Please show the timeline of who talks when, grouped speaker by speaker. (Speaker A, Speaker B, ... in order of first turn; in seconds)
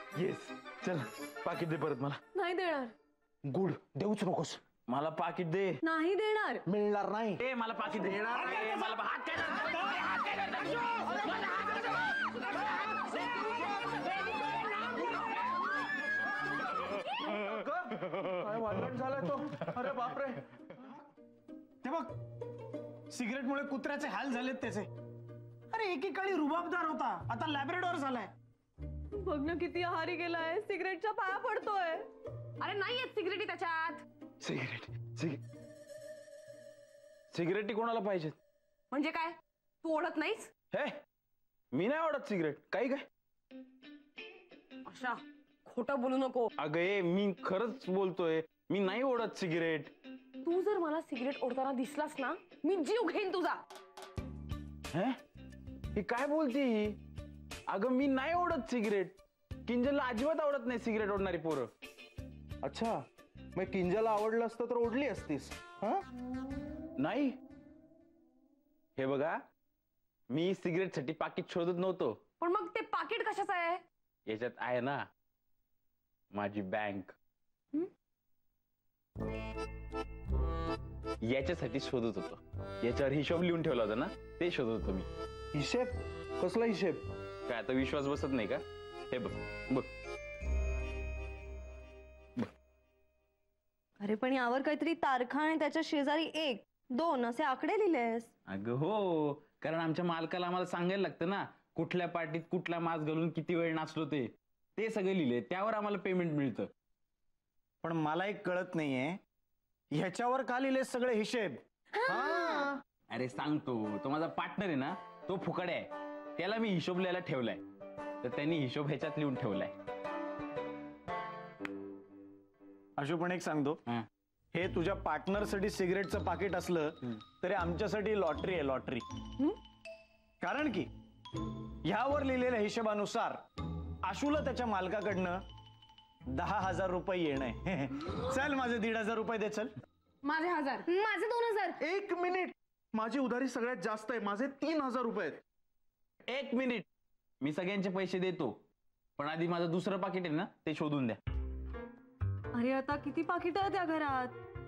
Speaker A: 0.1-2.2, 4.9-5.8, 7.4-13.1, 13.8-15.7, 34.4-35.4, 37.3-38.4, 41.7-43.0, 46.6-49.9, 54.9-55.2, 55.9-57.0, 57.7-61.7, 67.0-67.4, 69.0-69.4, 70.3-72.2, 74.3-75.0, 76.3-77.1, 81.2-85.1, 87.5-89.9, 98.5-106.7, 113.1-117.6, 118.2-119.7, 146.3-146.8, 147.4-148.6, 149.2-151.2
Speaker B: 2.3-2.9, 5.8-6.6, 29.2-32.0, 94.0-98.3, 112.0-112.7, 152.5-154.3
Speaker C: 3.4-4.6, 6.7-7.4, 8.0-8.8, 16.9-20.8, 62.6-63.0, 63.5-66.0, 85.5-87.0, 112.1-112.7, 141.8-145.4
Speaker D: 21.8-22.2, 23.1-24.9, 25.7-28.3, 107.8-109.2, 109.9-111.6, 123.0-123.8, 124.5-129.0, 130.4-130.9, 131.8-133.4, 134.0-135.4, 136.3-139.7
Speaker E: 32.6-34.0, 38.9-40.5, 44.9-46.5, 50.4-53.6, 72.4-73.8, 140.2-141.8